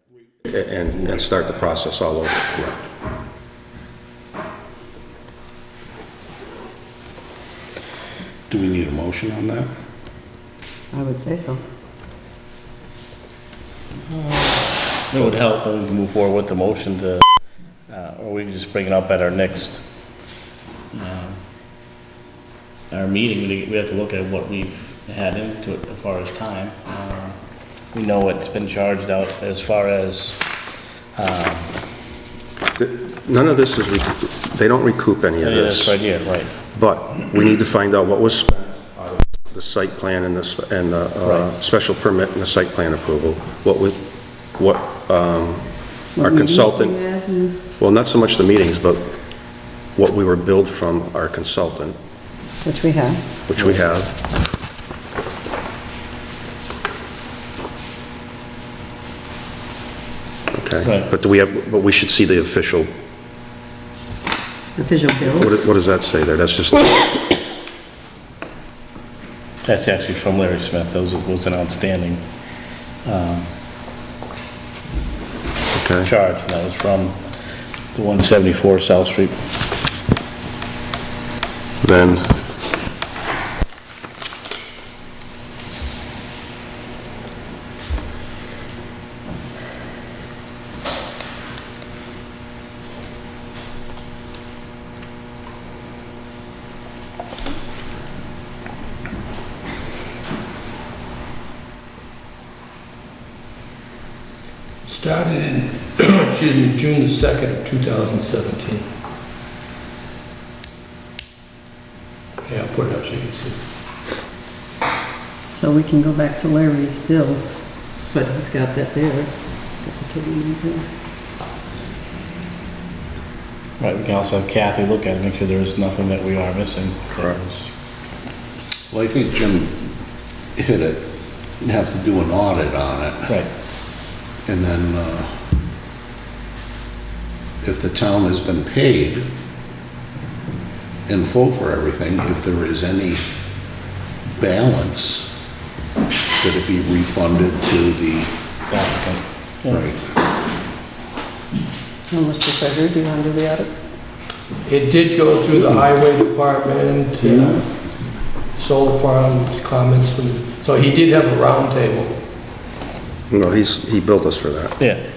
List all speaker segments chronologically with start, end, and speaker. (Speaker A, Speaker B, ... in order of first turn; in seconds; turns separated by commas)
Speaker A: 0.4-2.9, Speaker B: 8.5-9.7, Speaker C: 10.9-11.6, Speaker D: 15.1-17.3, Speaker D: 17.9-19.8, Speaker D: 20.9-21.4, Speaker D: 22.9-30.5, Speaker D: 31.1-31.7, Speaker A: 32.8-36.1, Speaker D: 35.4-36.5, Speaker A: 36.7-47.0, Speaker C: 46.1-47.6, Speaker A: 47.6-52.0, Speaker C: 52.6-53.4, Speaker A: 53.5-54.2, Speaker A: 60.5-62.9, Speaker D: 60.8-61.1, Speaker C: 64.8-65.6, Speaker A: 65.4-67.2, Speaker D: 69.6-72.2, Speaker D: 73.0-73.5, Speaker A: 75.7-76.1, Speaker D: 76.0-77.2, Speaker D: 77.9-79.3, Speaker A: 81.8-82.4, Speaker E: 104.8-108.8, Speaker E: 112.5-113.5, Speaker C: 115.5-117.4, Speaker C: 118.0-120.8, Speaker D: 123.8-127.7, Speaker B: 128.9-129.9, Speaker B: 130.5-133.3, Speaker B: 134.4-135.4, Speaker B: 137.6-139.3, Speaker B: 141.1-143.3, Speaker B: 144.3-145.3, Speaker B: 146.4-148.3, Speaker D: 148.7-149.8, Speaker B: 149.7-150.0, Speaker C: 152.1-153.7, Speaker E: 154.6-157.7, Speaker B: 157.2-157.6, Speaker E: 158.5-162.1, Speaker A: 163.3-164.8, Speaker D: 164.8-165.0